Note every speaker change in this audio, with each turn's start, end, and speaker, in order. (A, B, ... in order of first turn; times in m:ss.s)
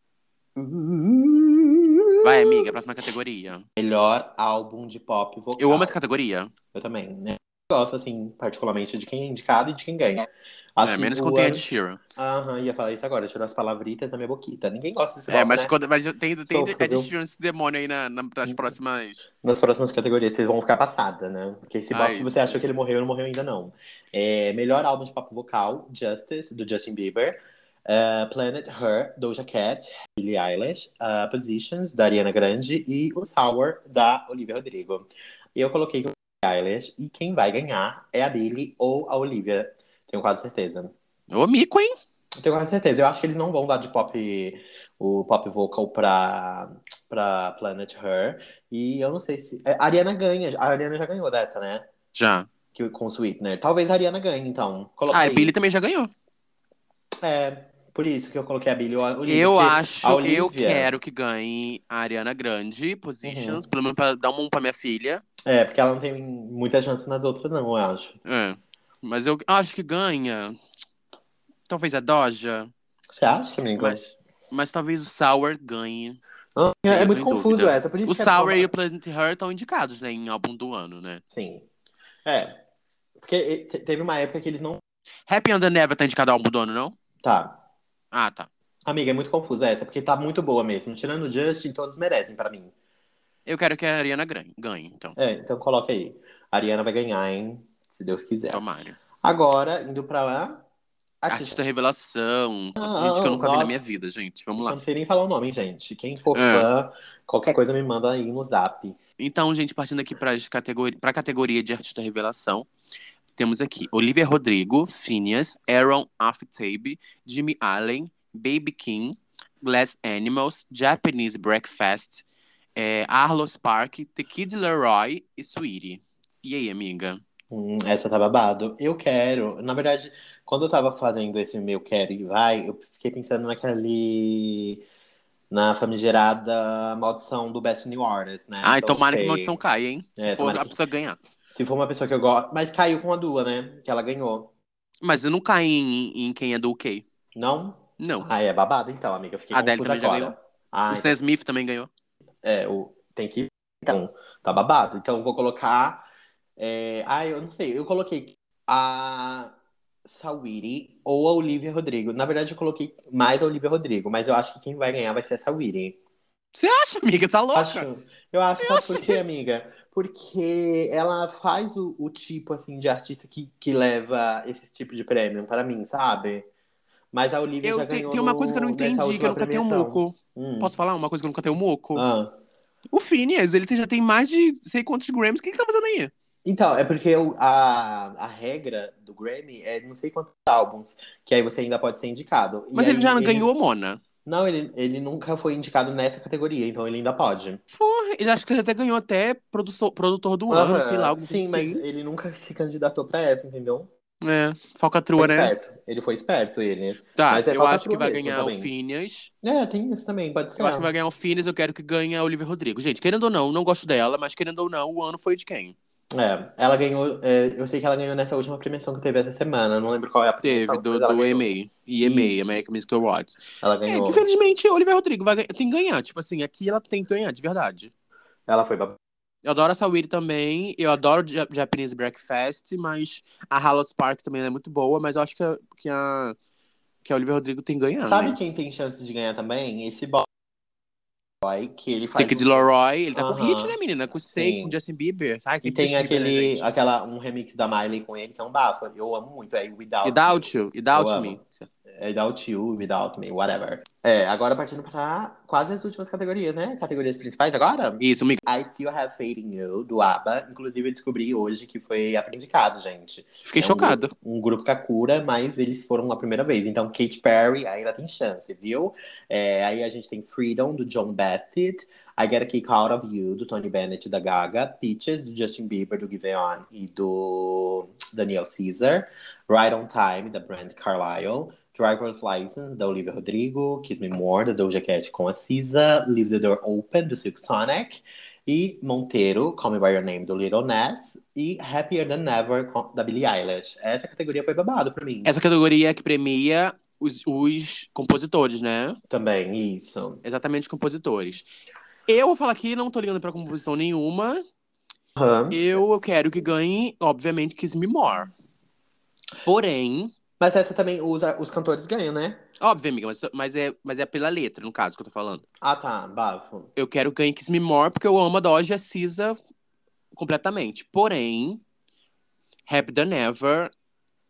0:00.6-0:02.7 A
0:02.2-0:03.6 B
0:03.8-0:06.0 A
0:05.6-0:06.5 B
0:06.7-0:15.7 A
0:10.8-0:12.0 B
0:15.3-0:19.2 B
0:16.5-0:17.1 A
0:19.4-0:40.9 A
0:21.9-0:22.5 B
0:41.3-0:41.9 B
0:42.4-0:51.8 A
0:52.1-0:52.5 B
0:52.7-0:55.5 A
0:55.1-0:56.1 B
0:57.2-1:00.9 A
0:59.2-1:05.2 B
1:03.2-1:03.6 A
1:05.4-1:08.2 A
1:08.2-1:10.6 B
1:11.7-1:12.7 B
1:13.1-1:14.0 A
1:13.8-1:16.2 B
1:16.6-1:18.7 A
1:16.9-1:21.2 B
1:21.3-1:21.6 A
1:22.2-1:22.5 A
1:23.2-1:24.8 A
1:25.3-1:27.0 B
1:27.2-1:27.5 A
1:28.1-1:28.5 B
1:28.8-1:32.7 A
1:33.4-1:35.2 B
1:35.2-1:38.6 A
1:38.5-1:39.0 B
1:39.2-1:40.6 A
1:41.2-1:41.6 A
1:41.3-1:44.8 B
1:42.8-1:43.8 A
1:44.6-1:49.0 A
1:46.3-1:46.7 B
1:49.2-1:52.7 B
1:53.4-2:02.2 B
2:02.8-2:07.2 B
2:07.5-2:14.8 A
2:15.5-2:19.6 A
2:18.6-2:21.2 B
2:20.2-2:20.7 A
2:21.5-2:24.5 A
2:25.0-2:27.0 B
2:27.3-2:31.2 A
2:28.0-2:28.2 B
2:29.5-2:30.3 B
2:30.9-2:31.9 B
2:32.4-2:36.0 A
2:36.6-2:39.5 A
2:40.0-2:46.0 A
2:46.5-2:47.8 B
2:47.5-2:56.4 A
2:48.6-2:49.2 B
2:57.1-3:00.7 A
2:57.6-3:02.0 B
3:01.9-3:02.3 A
3:02.9-3:06.1 B
3:06.4-3:13.5 A
3:12.7-3:14.0 B
3:14.2-3:17.6 A
3:17.7-3:21.8 B
3:20.5-3:23.9 A
3:24.2-3:25.5 B
3:25.2-3:28.7 A
3:27.2-3:29.3 B
3:29.4-3:30.9 A
3:30.6-3:35.7 B
3:36.1-3:42.4 A
3:40.4-3:47.9 B
3:43.6-3:44.2 A
3:48.5-3:49.0 A
3:49.4-3:56.4 B
3:57.0-3:58.4 B
3:58.0-4:00.3 A
4:01.4-4:03.8 A
4:02.2-4:06.6 B
4:04.3-4:04.8 A
4:05.6-4:11.4 A
4:10.0-4:11.7 B
4:11.9-4:55.3 A
4:18.0-4:18.4 B
4:23.4-4:24.1 B
4:55.2-4:59.0 B
4:59.1-5:00.2 A
5:00.2-5:01.4 B
5:02.1-5:04.4 B
5:05.2-5:05.6 A
5:05.5-5:08.3 B
5:09.4-5:10.1 B
5:10.4-5:12.4 A
5:12.6-5:15.4 B
5:15.6-5:16.7 A
5:16.8-5:19.4 B
5:20.1-5:21.6 B
5:22.7-5:23.7 B